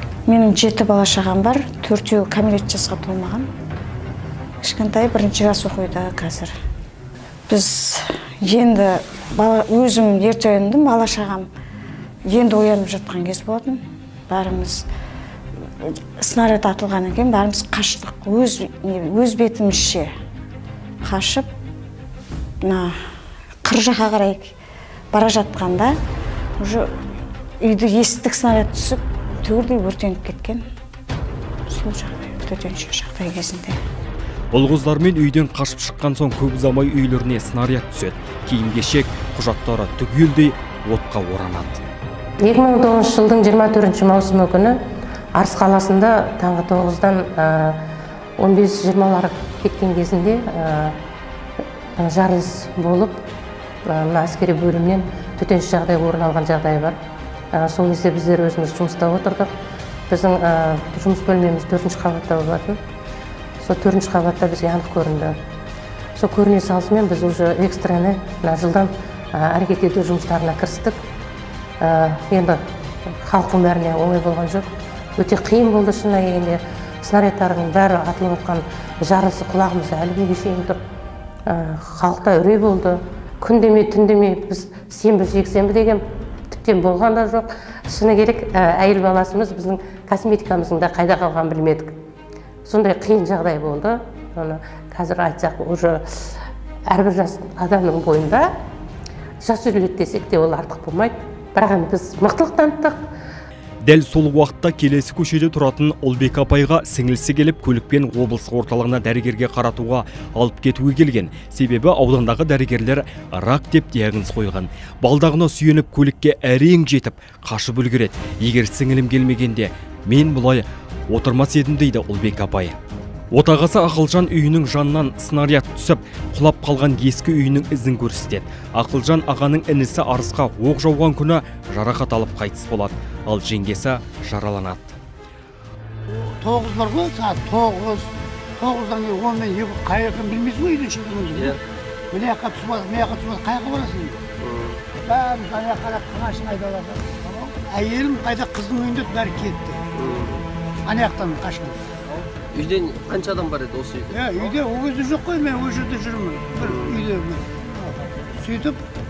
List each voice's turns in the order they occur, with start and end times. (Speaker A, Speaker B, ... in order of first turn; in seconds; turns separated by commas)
Speaker A: 0.3-3.5, Speaker A: 4.6-6.5, Speaker A: 7.5-11.5, Speaker A: 12.3-13.8, Speaker A: 14.3-14.8, Speaker A: 15.8-20.1, Speaker A: 21.1-21.5, Speaker A: 22.6-22.9, Speaker A: 23.7-24.5, Speaker A: 25.1-25.9, Speaker A: 27.6-30.6, Speaker A: 31.7-33.8, Speaker B: 34.5-41.8, Speaker C: 42.4-44.8, Speaker C: 45.4-47.8, Speaker C: 48.4-51.0, Speaker C: 52.0-53.2, Speaker C: 53.9-57.0, Speaker C: 57.5-59.5, Speaker C: 60.1-62.8, Speaker C: 63.6-65.3, Speaker C: 66.2-71.0, Speaker C: 71.8-72.6, Speaker C: 73.2-80.8, Speaker C: 81.5-91.9, Speaker C: 92.7-96.4, Speaker C: 96.9-98.4, Speaker C: 99.4-103.0, Speaker B: 103.8-122.8, Speaker B: 123.3-135.0, Speaker D: 136.2-141.6, Speaker D: 142.1-144.2, Speaker E: 144.4-144.8, Speaker D: 145.1-149.8, Speaker E: 150.0-150.4, Speaker D: 150.8-152.3, Speaker E: 152.5-154.6, Speaker D: 154.1-158.8, Speaker E: 156.6-157.1